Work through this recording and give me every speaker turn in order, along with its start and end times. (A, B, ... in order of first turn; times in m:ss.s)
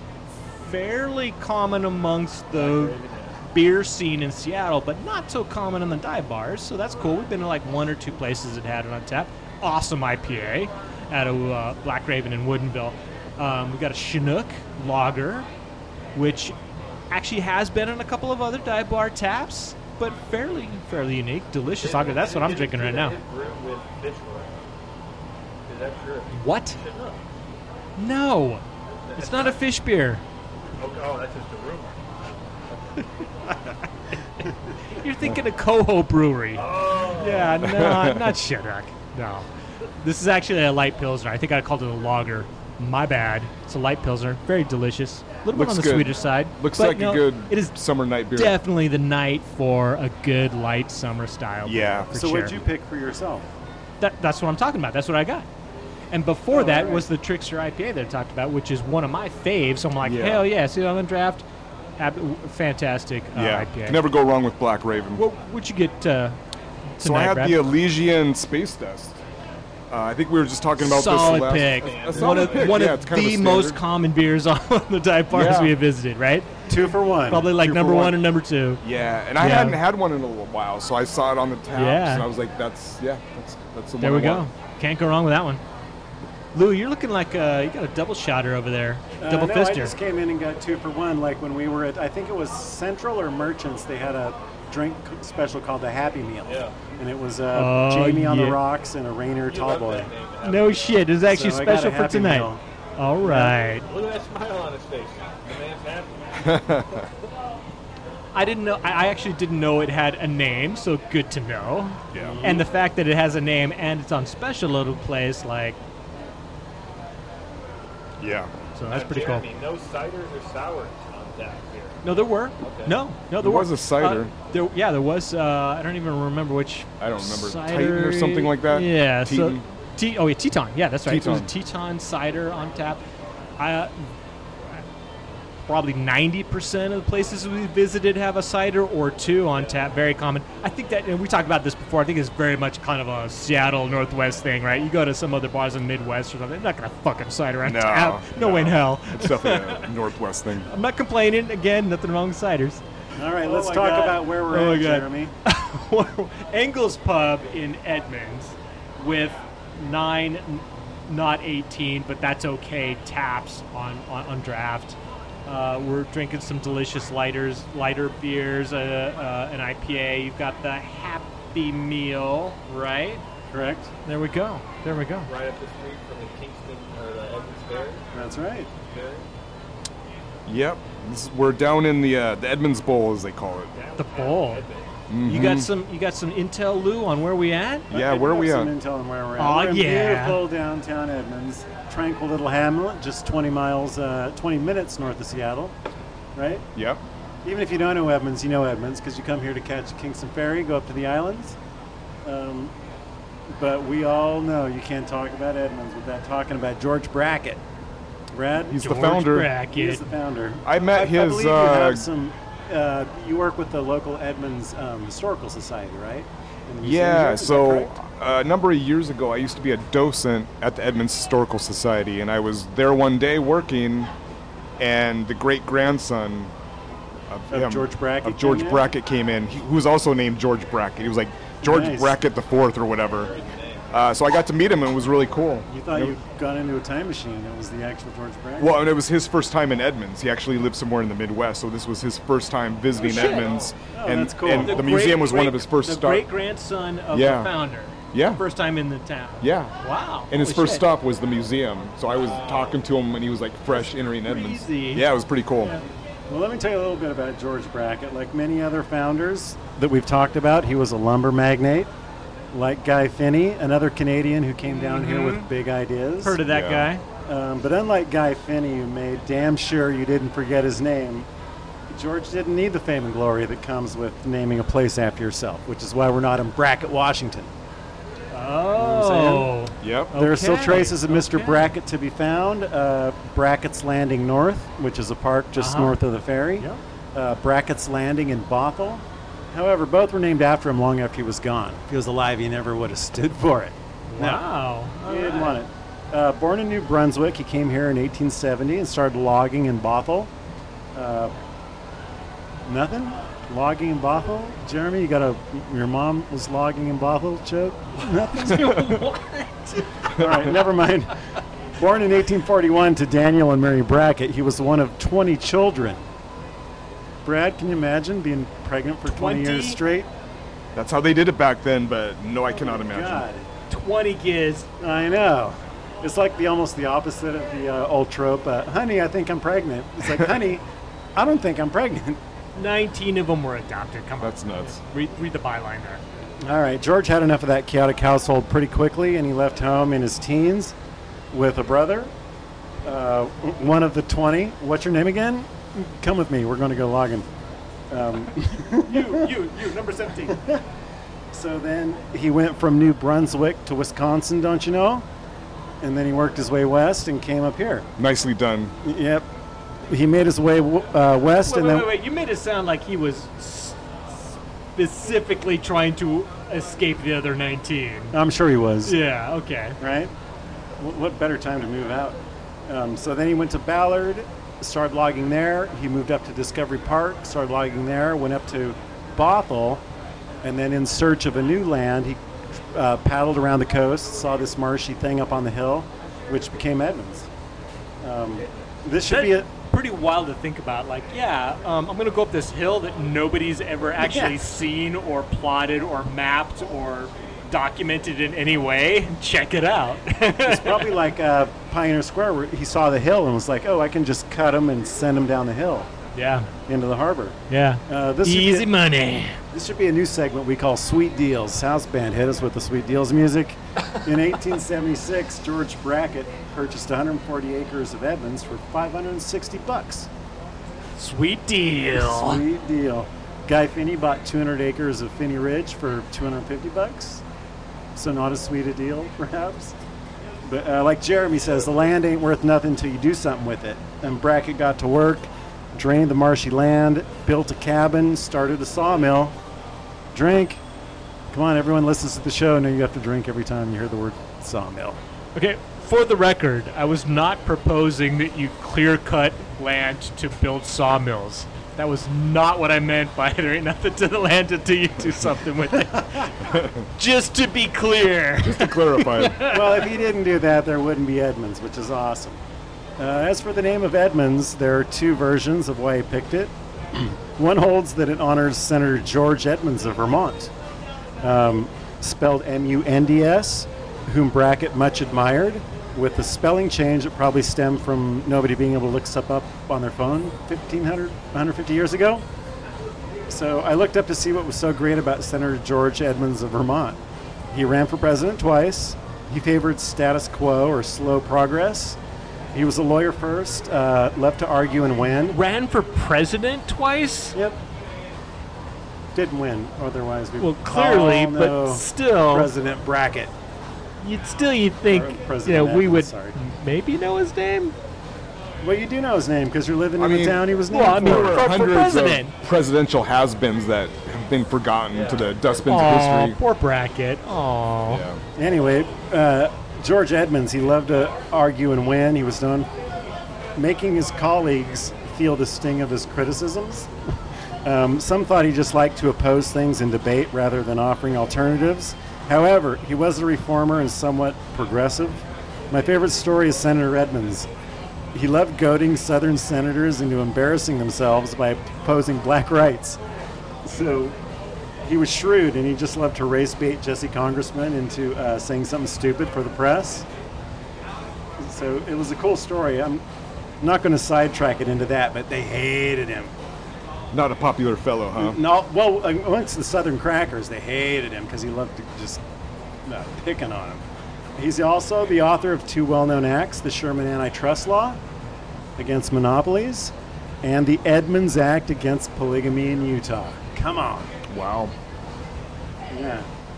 0:00.6-0:03.0 A
0:02.5-0:03.4 B
0:03.5-0:15.5 A
0:16.1-0:16.6 A
0:17.1-0:23.2 A
0:21.8-0:24.6 B
0:25.7-0:27.2 B
0:26.3-0:26.8 A
0:28.0-0:28.6 A
0:29.0-0:29.6 B
0:29.2-0:30.2 A
0:30.8-0:32.0 B
0:34.4-0:47.8 A
0:36.5-0:37.6 B
0:37.6-0:38.3 C
0:45.5-0:48.6 C
0:48.3-0:52.6 A
0:51.6-0:52.1 C
0:52.1-0:53.5 D
0:54.0-0:55.5 A
0:56.1-1:01.4 A
0:56.5-0:57.0 D
1:00.0-1:00.4 C
1:02.0-1:04.0 A
1:03.3-1:05.2 C
1:05.2-1:06.4 A
1:07.0-1:07.6 A
1:07.0-1:09.2 C
1:09.9-1:13.8 C
1:10.8-1:16.6 A
1:11.1-1:12.9 B
1:15.3-1:15.8 C
1:16.7-1:17.6 D
1:17.3-1:18.8 A
1:17.6-1:18.1 C
1:18.8-1:24.5 C
1:19.4-1:19.8 A
1:21.7-1:22.3 A
1:24.0-1:25.6 A
1:26.5-1:29.9 A
1:29.2-1:40.1 D
1:36.4-1:36.7 B
1:37.5-1:38.6 A
1:39.4-1:41.0 B
1:40.4-1:43.9 A
1:41.3-1:42.6 D
1:43.2-1:43.5 D
1:43.8-1:46.4 B
1:46.4-1:47.1 C
1:48.3-1:55.8 A
1:52.1-1:52.6 C
1:52.2-1:52.6 D
1:58.2-1:58.5 C
1:58.7-1:59.4 A
1:58.9-2:02.1 B
2:02.0-2:13.0 A
2:02.6-2:03.0 B
2:03.4-2:04.3 C
2:07.0-2:09.6 C
2:11.0-2:11.5 C
2:13.6-2:14.1 A
2:15.7-2:29.9 A
2:27.6-2:30.7 C
2:30.6-2:32.8 A
2:33.2-2:35.3 D
2:33.4-2:53.2 A
2:53.5-2:53.9 D
2:54.0-2:55.3 A
2:55.3-2:58.1 B
2:58.1-2:58.7 D
2:58.8-2:59.3 B
3:00.4-3:03.7 C
3:03.7-3:04.9 B
3:04.0-3:04.6 A
3:05.1-3:05.7 C
3:05.2-3:07.9 A
3:07.9-3:08.7 C
3:07.9-3:15.8 D
3:09.4-3:10.4 A
3:16.3-3:16.6 D
3:16.7-3:17.0 C
3:17.4-3:21.6 D
3:22.2-3:22.7 D
3:23.5-3:27.6 D
3:28.3-3:28.9 D
3:28.7-3:29.5 C
3:28.8-3:30.0 A
3:29.7-3:37.9 D
3:30.6-3:32.0 C
3:36.8-3:44.1 C
3:44.8-3:46.5 C
3:47.3-3:53.3 C
3:47.5-3:48.9 D
3:51.6-3:52.2 D
3:53.0-3:54.1 B
3:53.9-3:56.1 C
3:55.7-3:58.8 D
3:58.6-4:06.3 C
4:02.9-4:03.8 B
4:03.0-4:03.5 A
4:03.9-4:05.0 D
4:04.5-4:10.8 A
4:07.1-4:07.5 C
4:08.1-4:08.4 C
4:09.4-4:09.8 C
4:10.3-4:15.8 C
4:12.1-4:12.8 B
4:13.7-4:15.1 A
4:16.3-4:21.9 D
4:22.5-4:26.4 D
4:24.7-4:25.5 A
4:26.2-4:27.0 A
4:26.4-4:26.9 C
4:27.2-4:31.3 D
4:31.9-4:37.5 D
4:38.3-4:41.7 A
4:38.8-4:39.5 D
4:39.8-4:40.2 C
4:40.1-4:54.4 D
4:45.6-4:46.0 A
4:54.1-4:55.6 A
4:55.0-5:00.3 D
5:00.9-5:01.3 D
5:02.6-5:09.0 D
5:08.3-5:10.2 A
5:10.1-5:11.2 D
5:11.8-5:16.0 D
5:17.2-5:20.1 D
5:19.0-5:19.8 A
5:20.7-5:23.2 C
5:22.5-5:23.5 D
5:23.7-5:24.7 A
5:24.8-5:30.6 D
5:31.2-5:32.2 D
5:32.5-5:36.0 A
5:34.2-5:34.8 C
5:36.4-5:40.7 D
5:41.3-5:42.1 D
5:42.8-5:47.3 D
5:47.9-5:49.3 D
5:48.8-5:50.4 A
5:50.3-5:50.6 D
5:51.3-5:55.0 D
5:55.8-5:57.9 D
5:58.0-5:58.7 C
5:58.8-5:59.3 D
5:59.9-6:01.9 D
6:01.4-6:08.2 A
6:08.1-6:09.0 D
6:08.8-6:09.8 A
6:09.8-6:10.1 D
6:10.8-6:19.8 D
6:20.4-6:27.3 D
6:28.0-6:29.5 D
6:29.0-6:40.9 A
6:34.0-6:34.4 D
6:40.4-6:45.9 D
6:46.1-6:46.5 A
6:46.7-6:48.7 D
6:47.5-6:49.4 A
6:49.5-7:00.1 D
7:01.0-7:02.4 A
7:01.9-7:07.2 D
7:07.9-7:09.8 D
7:10.4-7:19.4 D
7:20.1-7:20.6 D
7:21.3-7:25.0 D
7:25.4-7:39.9 A
7:36.5-7:36.7 C
7:38.4-7:39.5 C
7:39.4-7:42.4 D
7:43.0-7:50.5 D
7:51.2-8:02.2 D
8:03.3-8:12.0 D
8:12.5-8:15.4 D
8:15.3-8:17.4 A
8:17.3-8:17.6 D
8:19.1-8:23.3 D
8:20.4-8:22.5 A
8:24.0-8:27.7 A
8:24.8-8:26.3 D
8:28.6-8:31.5 D
8:30.0-8:36.4 C
8:30.7-8:32.3 A
8:34.9-8:35.6 B
8:35.7-8:38.0 A
8:37.9-8:38.2 C
8:38.4-8:42.7 D
8:43.5-8:46.9 D
8:47.6-8:57.5 D
8:58.1-9:03.0 D
9:03.6-9:04.2 D
9:04.8-9:10.0 D
9:11.4-9:13.0 D
9:13.6-9:16.3 D
9:17.1-9:18.4 C
9:18.1-9:22.2 D
9:22.8-9:23.8 D
9:24.4-9:28.0 D
9:28.8-9:34.1 D
9:34.3-9:34.7 C
9:35.9-9:36.3 D